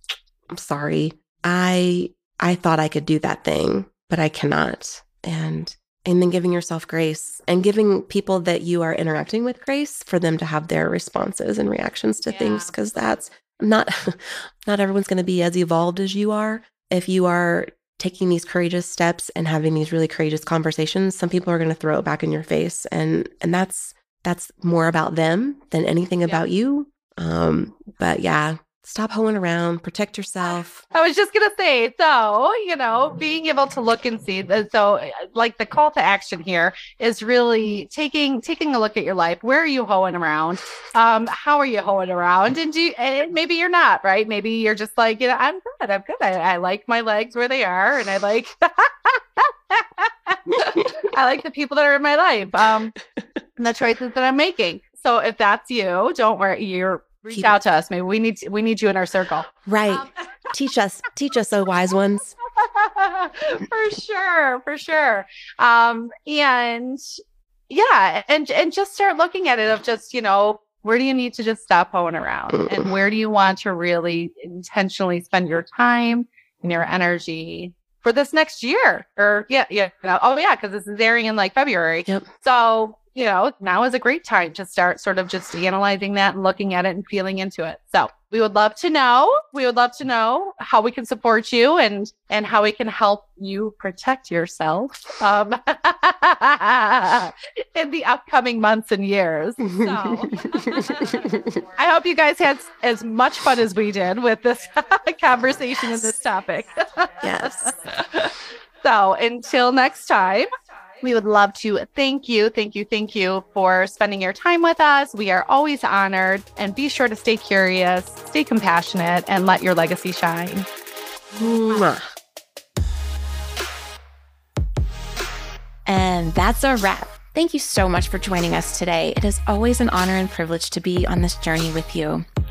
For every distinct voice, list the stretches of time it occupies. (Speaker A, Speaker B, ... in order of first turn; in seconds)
Speaker A: 0.5-30.8, 59.6-62.3, 72.5-72.9, 99.7-101.6, 107.2-107.7, 121.3-122.0
Speaker B: 12.3-12.8, 26.2-26.5, 30.4-52.9, 53.6-60.1, 62.6-67.0, 67.7-110.5, 111.0-120.7
Speaker C: 125.8-132.2